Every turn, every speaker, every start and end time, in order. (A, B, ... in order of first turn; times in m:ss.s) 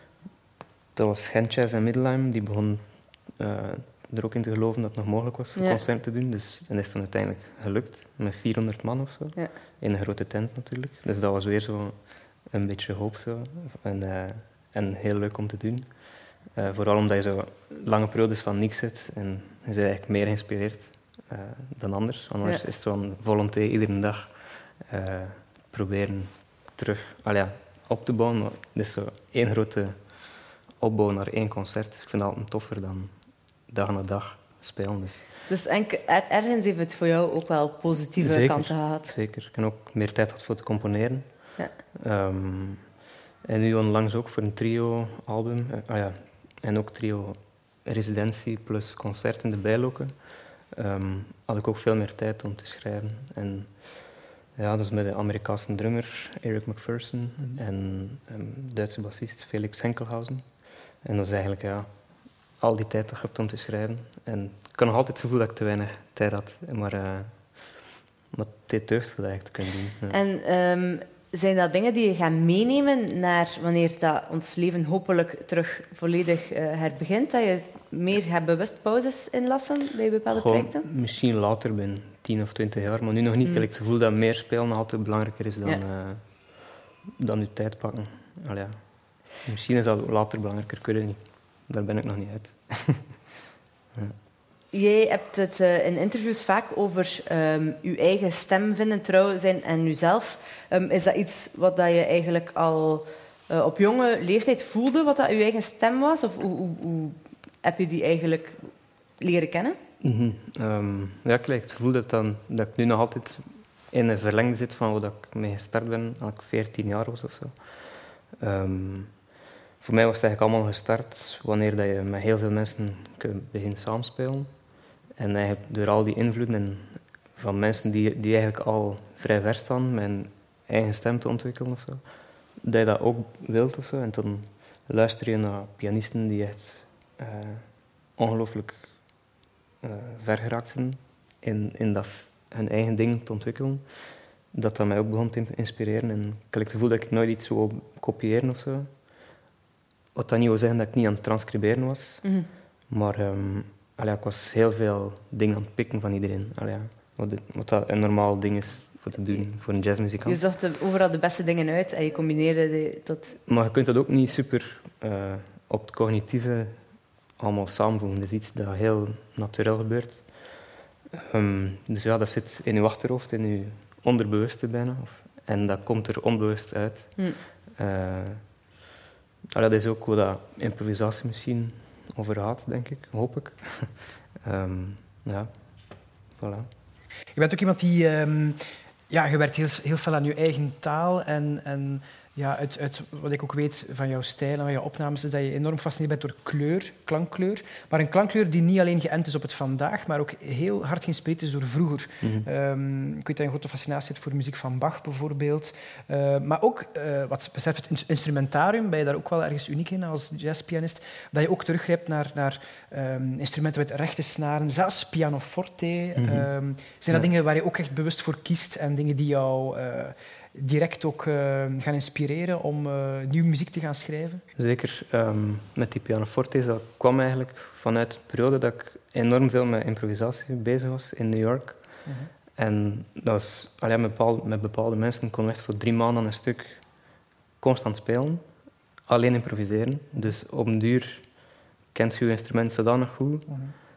0:00.9-0:35.3 A
0:05.6-0:05.8 B
0:35.5-0:39.1 B
0:38.2-1:10.2 A
1:10.1-1:20.8 B
1:20.3-1:33.3 A
1:34.7-1:49.8 B
1:50.0-1:59.2 A
1:59.8-2:19.0 A
2:19.8-2:29.1 A
2:30.1-2:40.4 A
2:32.2-2:32.5 B
2:40.2-2:43.4 B
2:43.4-2:58.6 A
2:59.5-3:06.7 A
3:07.3-3:44.4 C
3:22.2-3:22.5 A
3:36.2-3:36.5 A
3:44.6-3:58.4 A
3:52.0-3:52.3 C
3:59.1-4:03.5 A
4:03.5-4:03.7 C